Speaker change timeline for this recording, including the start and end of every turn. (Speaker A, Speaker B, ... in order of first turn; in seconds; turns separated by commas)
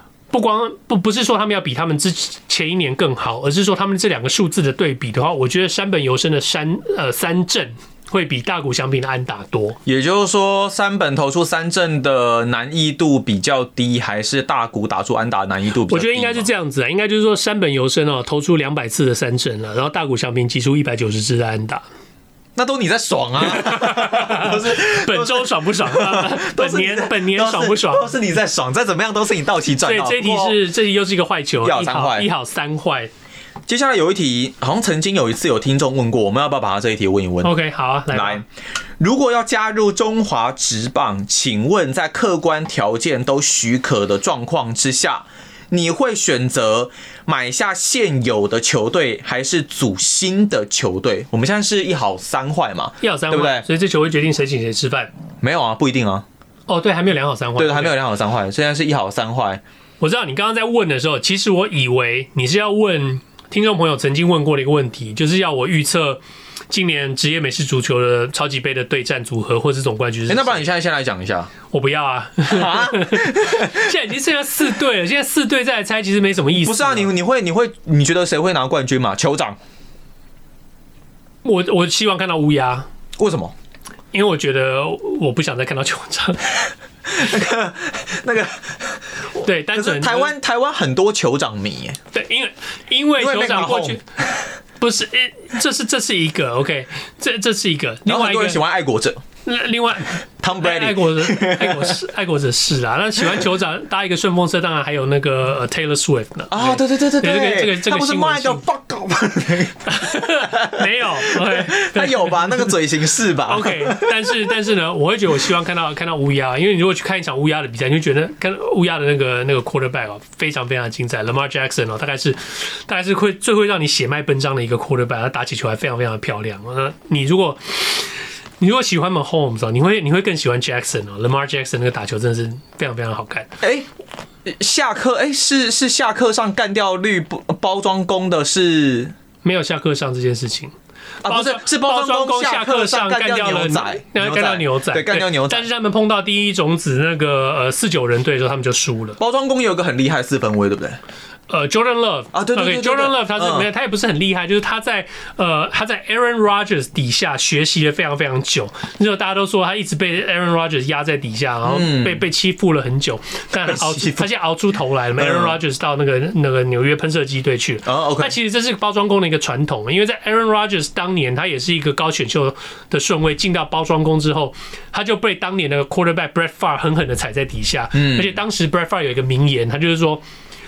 Speaker A: 0.3-9.8, Speaker B: 9.8-16.5, Speaker A: 15.9-21.8, Speaker B: 22.6-30.6, Speaker A: 23.5-28.1, Speaker A: 29.8-33.1, Speaker B: 31.6-32.3, Speaker B: 33.7-37.5, Speaker A: 37.4-38.4, Speaker B: 38.1-38.4, Speaker B: 39.0-53.6, Speaker A: 53.0-55.1, Speaker B: 55.4-56.2, Speaker A: 56.7-57.9, Speaker B: 57.6-59.6, Speaker A: 60.0-70.7, Speaker B: 70.3-71.5, Speaker A: 71.7-77.1, Speaker B: 72.5-73.9, Speaker B: 76.6-79.6, Speaker A: 81.4-82.9, Speaker B: 83.2-83.5, Speaker A: 84.1-86.4, Speaker B: 87.1-89.0, Speaker A: 89.4-90.3, Speaker B: 89.7-92.0, Speaker A: 92.1-94.0, Speaker B: 93.2-94.3, Speaker A: 94.8-98.6, Speaker B: 98.0-99.2, Speaker A: 99.4-108.6, Speaker B: 100.4-102.0, Speaker B: 106.5-114.3, Speaker A: 109.8-112.7, Speaker A: 113.4-133.5, Speaker B: 133.6-133.9, Speaker B: 134.4-139.1, Speaker A: 139.4-140.7, Speaker B: 141.2-145.7, Speaker A: 141.2-149.2, Speaker B: 149.2-151.0, Speaker A: 151.5-180.2, Speaker B: 152.3-153.7, Speaker B: 161.6-162.2, Speaker B: 163.6-164.3, Speaker B: 165.2-165.6, Speaker B: 167.8-168.3, Speaker B: 177.9-178.3